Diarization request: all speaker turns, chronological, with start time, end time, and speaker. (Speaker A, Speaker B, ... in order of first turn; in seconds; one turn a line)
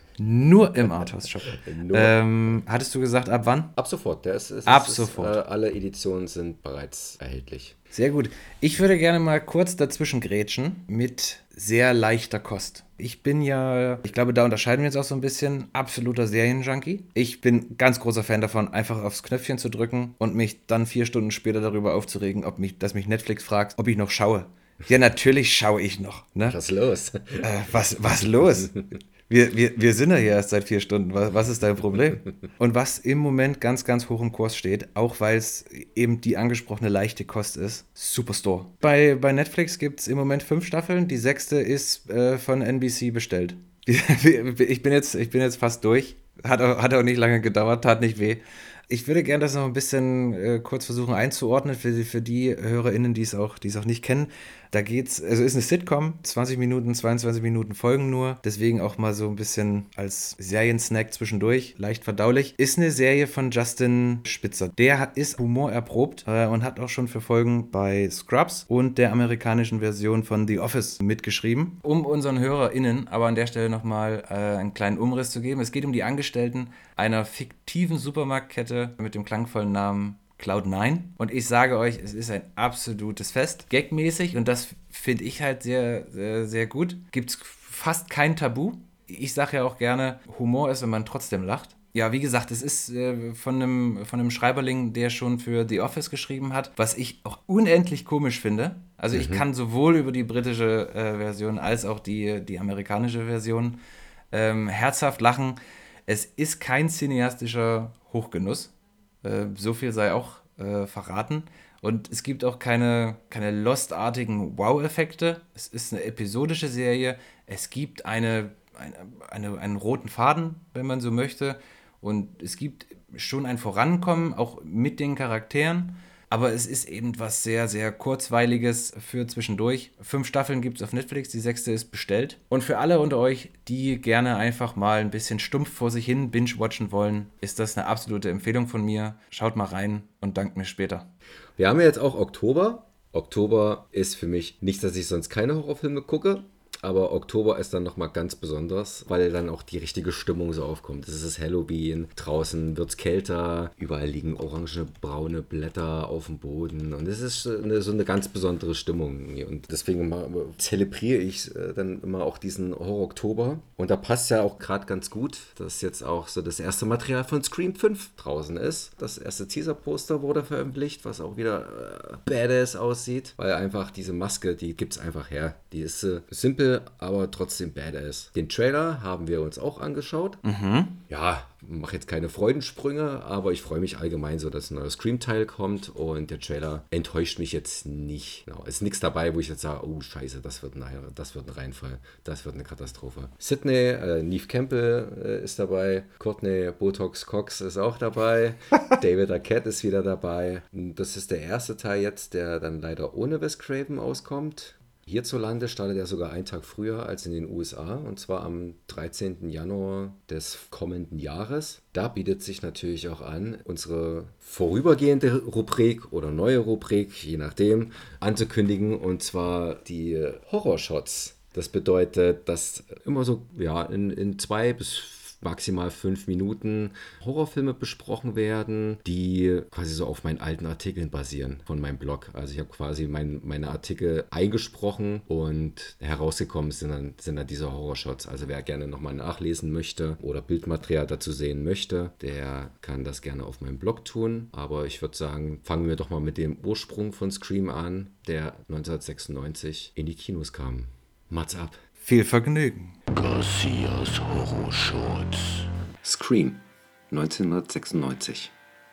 Speaker A: 0.2-3.8
Speaker B: 1.5-2.3
Speaker B: 3.8-7.8
Speaker A: 4.7-5.4
Speaker A: 7.9-26.6
Speaker B: 26.4-27.5
Speaker A: 27.4-103.8
Speaker B: 99.1-99.4
Speaker A: 104.3-141.1
Speaker B: 141.6-180.4
Speaker A: 180.4-181.0
Speaker B: 181.1-251.8
Speaker A: 252.0-252.9
Speaker C: 253.1-255.7
Speaker B: 256.0-258.5